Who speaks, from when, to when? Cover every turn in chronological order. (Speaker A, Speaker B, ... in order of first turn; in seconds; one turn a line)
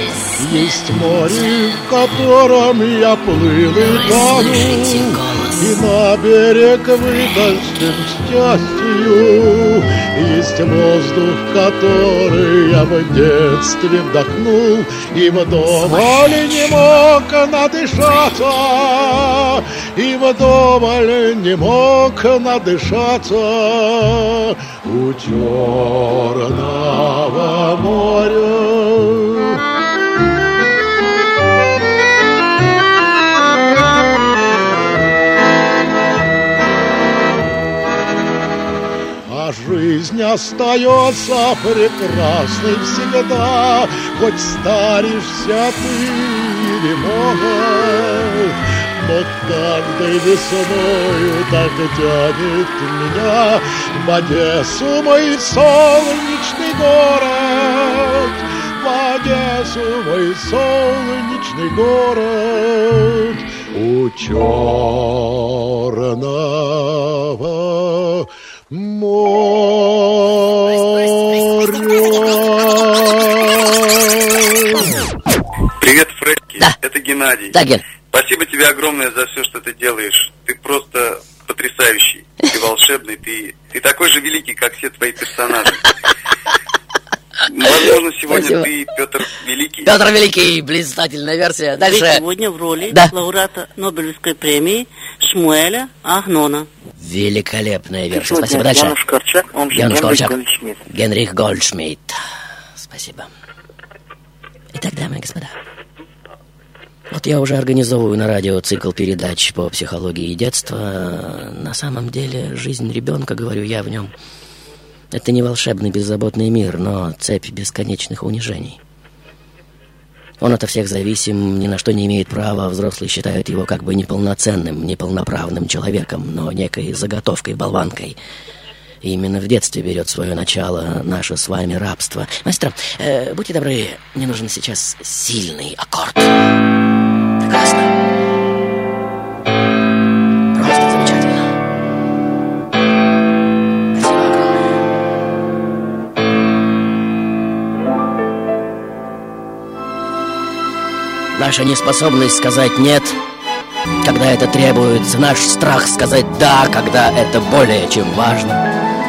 Speaker A: 0.4-29.6
Speaker B: 3.8-5.8
Speaker A: 39.3-75.0
Speaker C: 75.8-77.6
Speaker B: 77.5-77.8
Speaker C: 78.1-85.8
Speaker C: 87.5-89.9
Speaker B: 88.3-88.7
Speaker B: 89.9-92.2
Speaker D: 91.8-96.7
Speaker B: 97.0-99.0
Speaker E: 98.1-100.8
Speaker B: 99.7-100.4
Speaker B: 100.9-102.2
Speaker B: 102.8-103.3
Speaker B: 104.7-105.5
Speaker B: 107.1-114.1
Speaker B: 115.1-118.8
Speaker B: 120.4-128.2
Speaker B: 129.0-136.3
Speaker B: 137.4-137.9
Speaker B: 140.6-141.5
Speaker B: 143.9-144.8
Speaker B: 151.3-153.2
Speaker B: 154.0-158.6